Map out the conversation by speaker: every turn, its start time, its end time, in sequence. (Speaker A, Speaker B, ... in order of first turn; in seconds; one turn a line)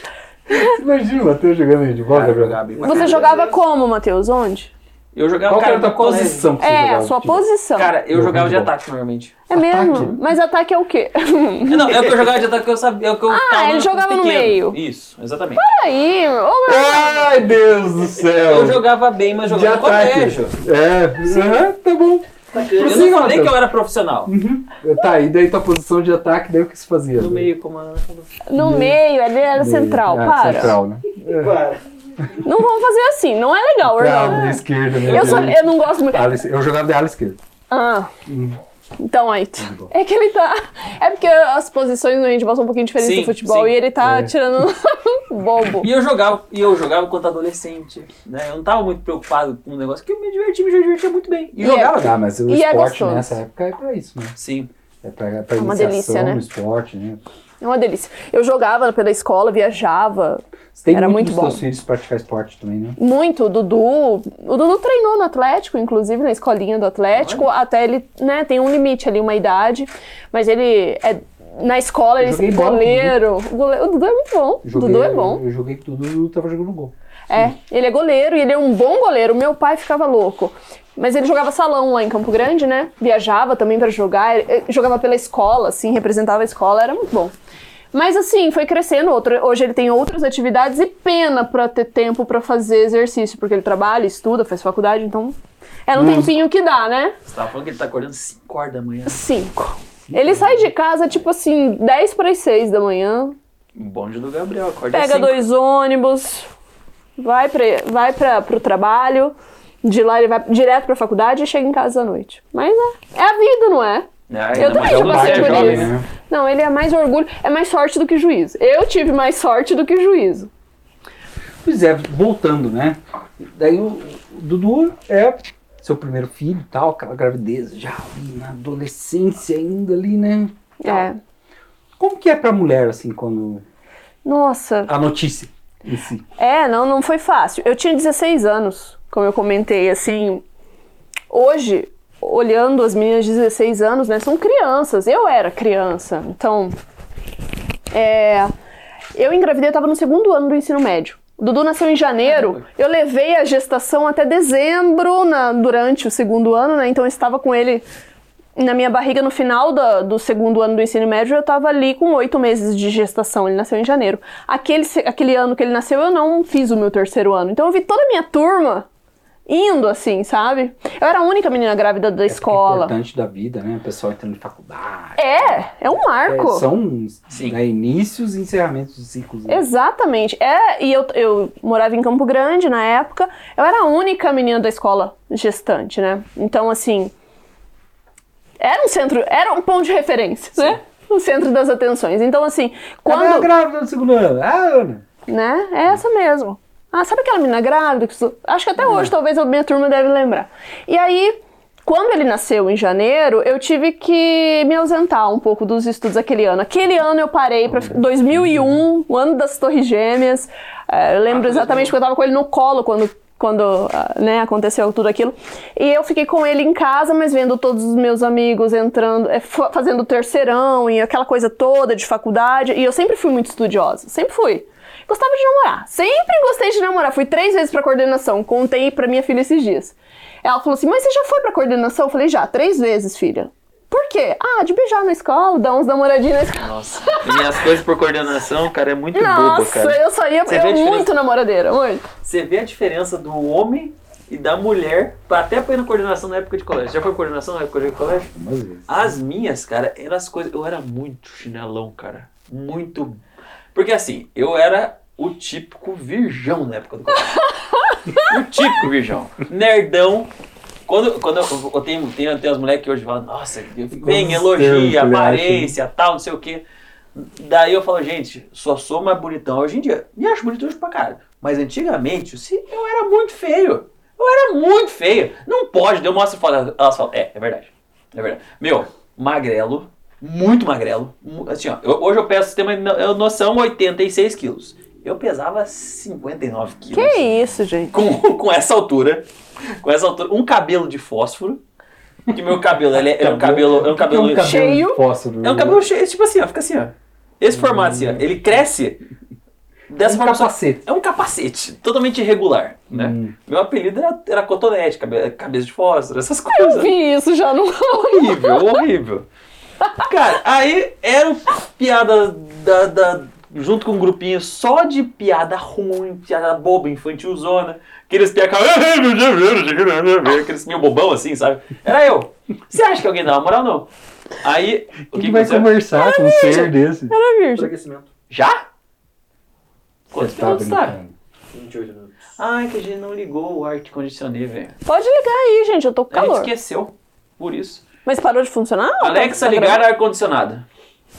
Speaker A: 0.5-3.2
Speaker B: 2.1-3.5
Speaker C: 2.8-4.7
Speaker B: 5.1-6.5
Speaker A: 5.5-7.5
Speaker C: 6.6-8.0
Speaker B: 7.8-9.4
Speaker A: 8.1-8.7
Speaker C: 9.5-12.0
Speaker A: 9.5-10.2
Speaker B: 11.7-15.6
Speaker C: 13.3-14.8
Speaker C: 15.6-17.4
Speaker A: 16.7-18.8
Speaker B: 18.4-20.5
Speaker A: 19.4-23.6
Speaker D: 22.5-22.8
Speaker B: 22.6-24.3
Speaker A: 24.2-27.5
Speaker B: 27.2-28.4
Speaker C: 28.4-30.8
Speaker A: 28.6-29.0
Speaker A: 29.5-31.6
Speaker D: 31.2-31.8
Speaker C: 32.4-36.4
Speaker A: 33.8-37.4
Speaker B: 35.0-35.5
Speaker C: 37.7-38.1
Speaker A: 38.2-38.6
Speaker C: 39.0-45.9
Speaker A: 39.6-39.9
Speaker B: 43.0-43.7
Speaker A: 44.0-44.3
Speaker B: 45.8-52.2
Speaker C: 51.6-53.4
Speaker A: 51.9-54.4
Speaker B: 54.4-54.7
Speaker A: 55.0-57.2
Speaker C: 55.6-56.4
Speaker C: 57.6-61.6
Speaker A: 60.7-63.0
Speaker C: 63.0-75.4
Speaker A: 72.2-73.2
Speaker A: 74.6-77.5
Speaker C: 77.3-87.3
Speaker C: 87.9-97.1
Speaker A: 95.9-96.3
Speaker B: 97.2-99.2
Speaker C: 99.1-103.3
Speaker A: 100.1-100.7
Speaker B: 103.7-105.4
Speaker C: 104.9-106.5
Speaker C: 107.2-120.5
Speaker B: 114.3-115.9
Speaker A: 114.5-116.0
Speaker A: 121.6-130.6
Speaker C: 130.8-131.2
Speaker A: 132.0-133.6
Speaker C: 134.2-134.9
Speaker A: 134.9-136.2
Speaker C: 136.4-140.4
Speaker C: 141.3-146.8
Speaker C: 147.9-148.5
Speaker C: 149.1-157.8
Speaker B: 152.2-152.6
Speaker C: 158.6-168.9
Speaker C: 169.5-172.9
Speaker A: 172.3-175.7
Speaker C: 175.2-176.7
Speaker A: 176.2-179.6
Speaker B: 177.3-177.6
Speaker C: 179.5-187.1
Speaker C: 188.6-193.5
Speaker A: 193.1-195.0
Speaker C: 195.3-237.6
Speaker A: 198.8-199.1
Speaker A: 207.7-208.7
Speaker B: 211.3-211.9
Speaker B: 236.6-241.1
Speaker C: 239.1-242.1
Speaker B: 242.2-248.3
Speaker A: 248.3-249.1
Speaker B: 248.9-253.2
Speaker B: 253.7-257.4
Speaker C: 257.7-258.3
Speaker B: 258.2-260.3
Speaker B: 260.9-266.6
Speaker A: 263.9-265.8
Speaker B: 267.1-287.3
Speaker C: 286.9-287.9
Speaker B: 287.9-289.3
Speaker B: 289.8-291.6
Speaker B: 292.3-294.6
Speaker A: 292.9-295.8
Speaker C: 294.4-295.0
Speaker B: 295.4-299.0
Speaker A: 297.5-298.2
Speaker B: 299.9-306.9
Speaker A: 300.0-300.8
Speaker A: 302.9-303.4
Speaker C: 306.5-308.6
Speaker B: 307.9-309.3
Speaker B: 310.0-323.9
Speaker B: 324.4-325.8
Speaker A: 325.1-327.1
Speaker C: 325.9-327.7
Speaker D: 327.6-328.1
Speaker B: 328.3-328.6
Speaker B: 330.1-331.0
Speaker A: 330.1-331.1
Speaker D: 331.5-332.1
Speaker B: 332.4-334.8
Speaker C: 334.9-336.5
Speaker B: 336.1-337.8
Speaker C: 338.0-339.9
Speaker B: 339.0-340.6